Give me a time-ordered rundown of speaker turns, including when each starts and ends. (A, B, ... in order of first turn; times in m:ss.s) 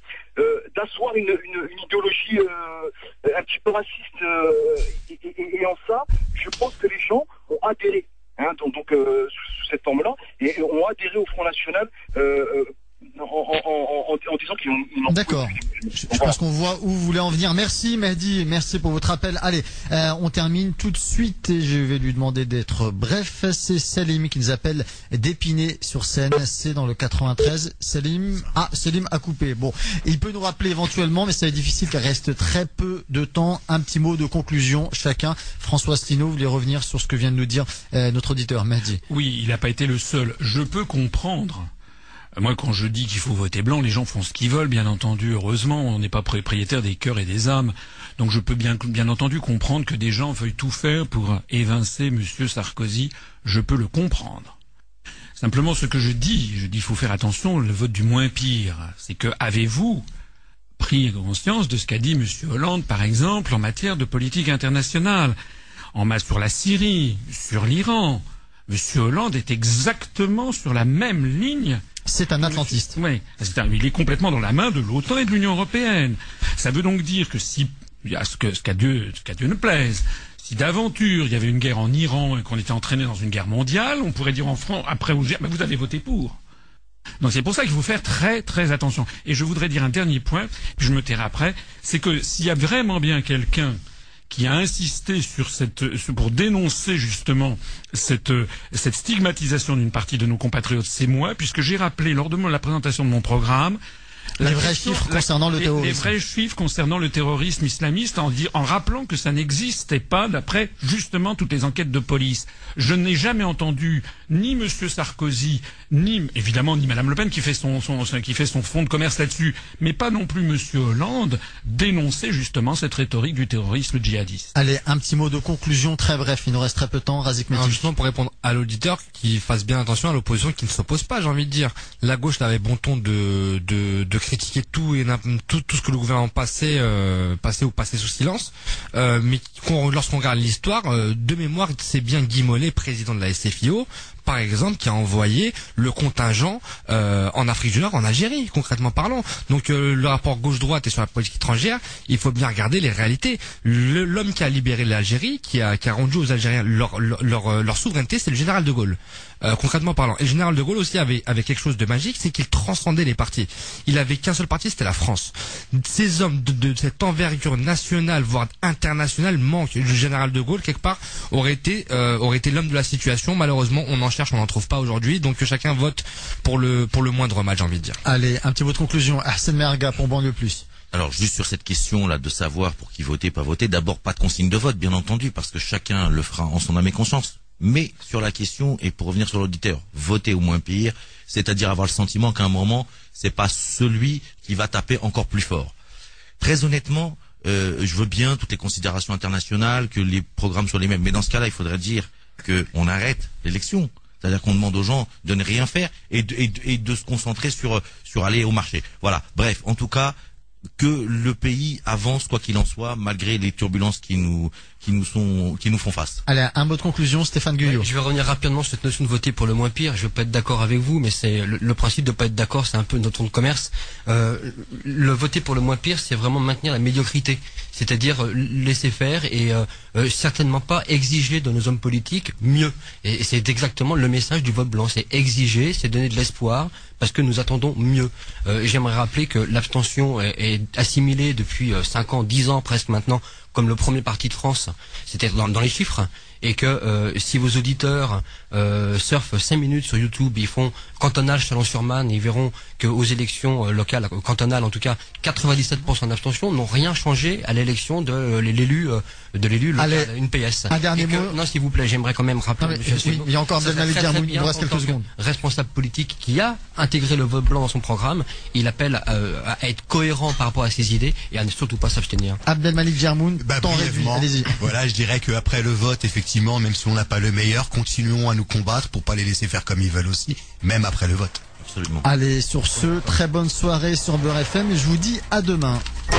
0:00.4-0:16.4 A
0:15.1-0:39.0 B
0:39.1-0:41.7 C
0:42.4-0:54.6 C
0:55.4-1:00.1 C
1:00.8-1:05.4 C
1:05.9-1:11.8 C
1:12.1-1:13.0 B
1:12.4-1:26.4 C
1:27.2-1:33.8 C
1:34.3-1:43.8 C
1:44.4-2:04.5 C
1:44.4-1:46.1 B
2:04.6-2:07.8 B
2:07.6-2:58.0 D
2:58.0-3:00.7 B
3:00.9-3:15.7 E
3:16.4-3:30.2 E
3:30.8-3:36.2 E
3:36.3-3:37.9 B
3:37.6-4:32.4 F
4:19.8-4:20.1 B
4:20.7-4:21.4 B
4:22.6-4:25.1 B
4:32.5-4:34.5 B
4:33.4-4:41.4 G
4:41.6-4:42.1 E
4:42.0-4:45.8 B